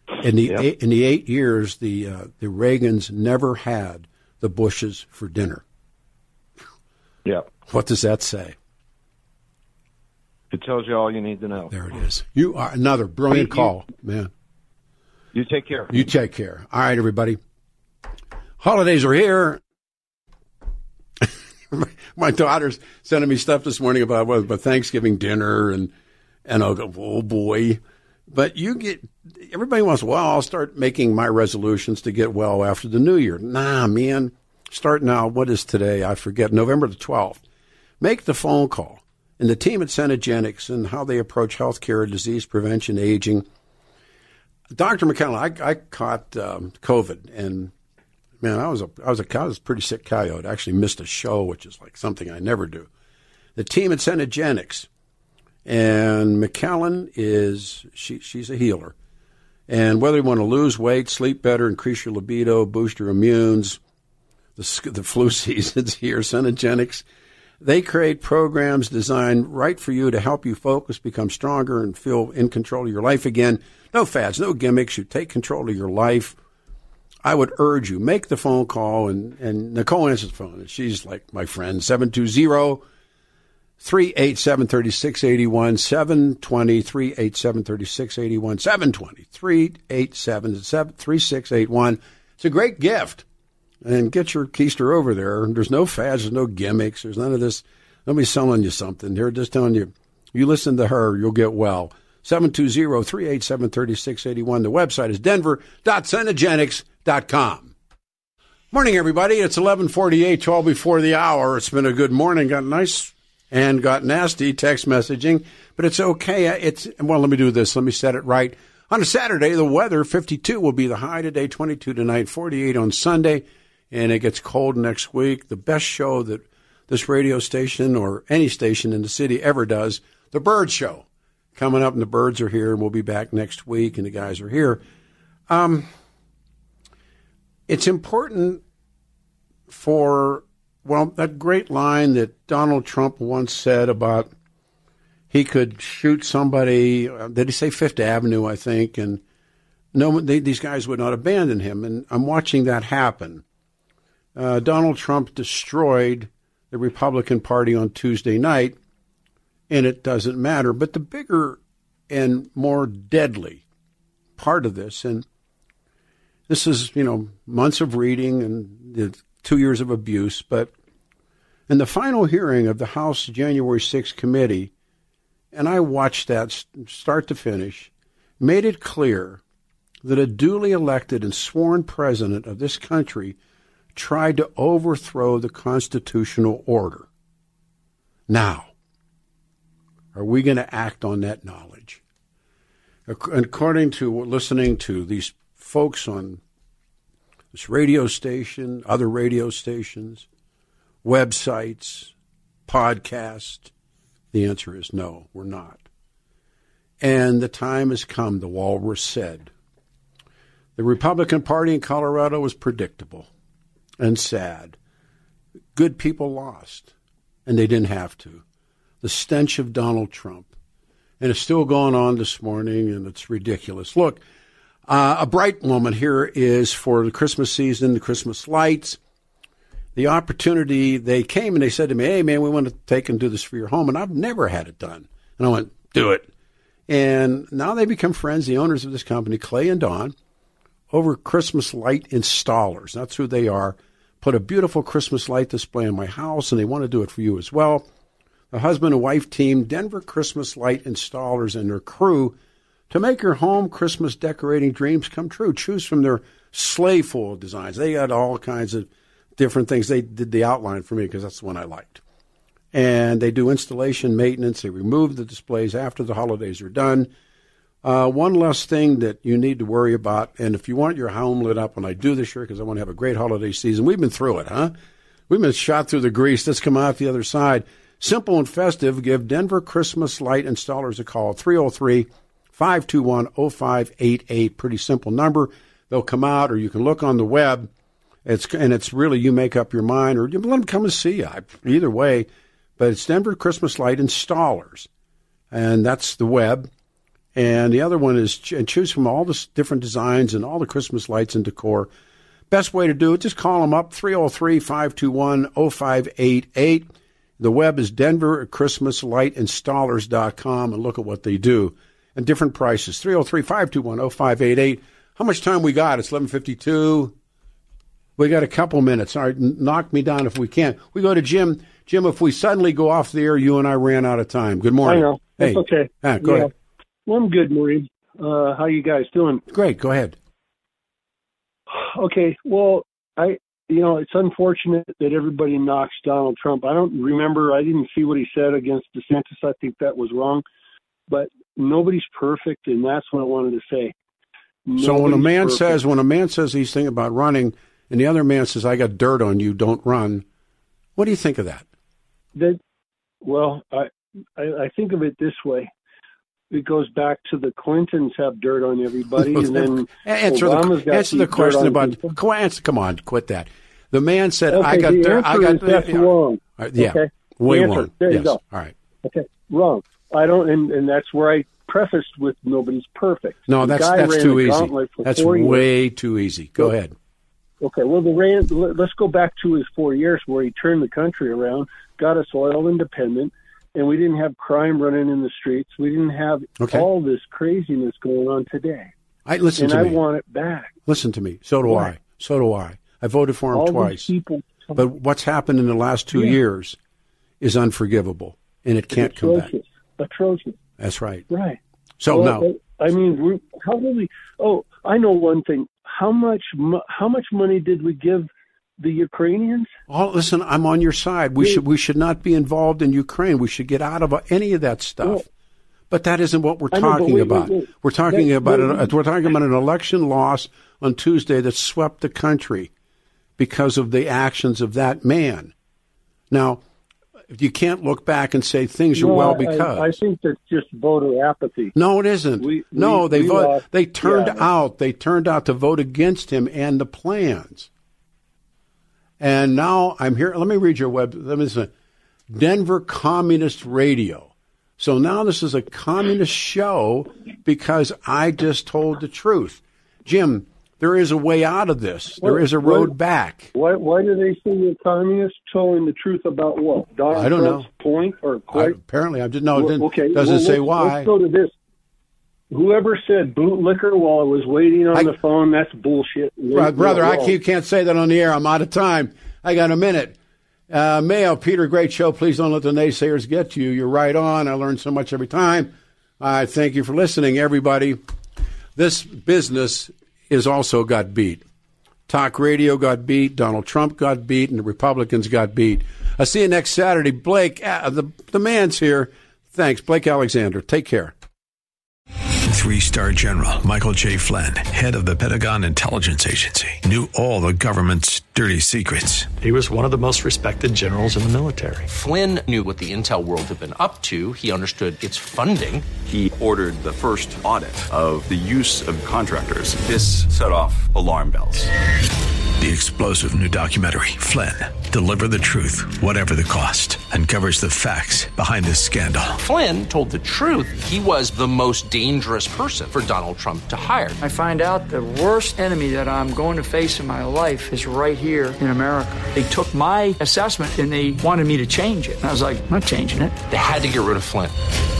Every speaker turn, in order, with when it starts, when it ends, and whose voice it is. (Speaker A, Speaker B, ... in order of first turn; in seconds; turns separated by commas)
Speaker A: 0.2-5.6, Speaker A: 7.7-8.6, Speaker B: 10.5-11.7, Speaker A: 11.7-14.3, Speaker B: 13.3-13.7, Speaker B: 15.3-15.9, Speaker A: 15.9-17.4, Speaker A: 18.6-19.6, Speaker A: 21.2-25.9, Speaker A: 26.5-37.4, Speaker A: 38.0-43.5, Speaker A: 44.7-47.7, Speaker A: 48.4-52.9, Speaker A: 53.5-54.9, Speaker A: 55.7-59.0, Speaker A: 59.7-63.8, Speaker A: 64.6-67.0, Speaker A: 67.6-76.4, Speaker A: 77.2-82.8, Speaker A: 83.8-93.2, Speaker A: 93.8-107.7, Speaker A: 108.7-134.8, Speaker A: 135.5-135.9, Speaker A: 137.7-138.6, Speaker A: 139.7-144.3, Speaker A: 145.3-149.2, Speaker A: 149.9-153.4, Speaker A: 154.4-158.8, Speaker A: 159.7-163.6, Speaker A: 164.4-165.3, Speaker A: 166.5-170.7, Speaker A: 171.7-174.7, Speaker A: 175.5-179.4, Speaker A: 180.0-183.4, Speaker A: 183.9-187.1, Speaker A: 188.3-188.7, Speaker A: 190.2-192.0, Speaker A: 193.1-196.4, Speaker A: 197.5-200.3, Speaker A: 201.0-202.1, Speaker A: 202.7-203.7, Speaker A: 204.3-205.8, Speaker A: 207.0-209.5, Speaker A: 210.8-213.3, Speaker A: 214.0-214.8, Speaker A: 215.8-216.9, Speaker A: 217.5-218.4, Speaker A: 219.0-220.5, Speaker A: 221.2-224.2, Speaker A: 224.9-229.0, Speaker A: 229.9-236.3, Speaker A: 236.9-240.2, Speaker A: 240.9-247.9, Speaker A: 248.5-252.4, Speaker A: 252.9-262.0, Speaker A: 262.7-267.1, Speaker A: 267.8-274.8, Speaker A: 275.3-287.7, Speaker A: 288.2-294.9, Speaker A: 295.5-296.7, Speaker A: 297.4-301.9, Speaker A: 302.5-317.1, Speaker A: 318.2-326.5, Speaker C: 324.8-326.5, Speaker C: 327.1-329.4, Speaker A: 329.5-330.2, Speaker C: 331.7-340.4, Speaker C: 341.1-343.9, Speaker C: 344.7-345.8, Speaker A: 344.8-350.2, Speaker A: 351.0-351.6, Speaker C: 352.4-352.6, Speaker C: 353.2-355.7, Speaker C: 356.5-362.2, Speaker A: 359.2-368.7, Speaker C: 364.5-368.4, Speaker C: 369.0-375.6, Speaker A: 373.5-376.9, Speaker C: 377.6-388.9, Speaker A: 386.6-386.9, Speaker A: 389.3-390.0, Speaker C: 389.6-390.8, Speaker A: 390.9-394.1, Speaker C: 391.6-391.9, Speaker C: 393.5-394.8, Speaker A: 394.8-396.8, Speaker C: 396.1-396.4, Speaker A: 397.4-399.5, Speaker C: 398.9-400.6, Speaker A: 400.8-401.3, Speaker C: 401.3-409.7, Speaker A: 402.0-402.5, Speaker A: 409.9-415.3, Speaker A: 415.9-422.7, Speaker C: 416.7-418.9, Speaker A: 423.4-425.5, Speaker A: 426.3-426.6, Speaker A: 427.3-430.0, Speaker C: 428.9-431.7, Speaker A: 431.7-437.7, Speaker C: 432.4-434.5, Speaker A: 439.2-441.7, Speaker A: 442.3-453.5, Speaker C: 452.2-452.9, Speaker C: 453.5-458.8, Speaker A: 457.1-457.7, Speaker A: 458.5-461.1, Speaker C: 459.6-461.5, Speaker C: 462.5-467.4, Speaker A: 466.5-470.2, Speaker A: 470.7-478.0, Speaker A: 478.8-481.4, Speaker A: 482.1-491.1, Speaker D: 492.5-499.3, Speaker E: 499.4-501.9, Speaker F: 501.9-505.9, Speaker G: 506.1-511.7, Speaker D: 512.6-519.4, Speaker F: 519.4-524.2, Speaker H: 524.2-533.4, Speaker F: 533.5-534.5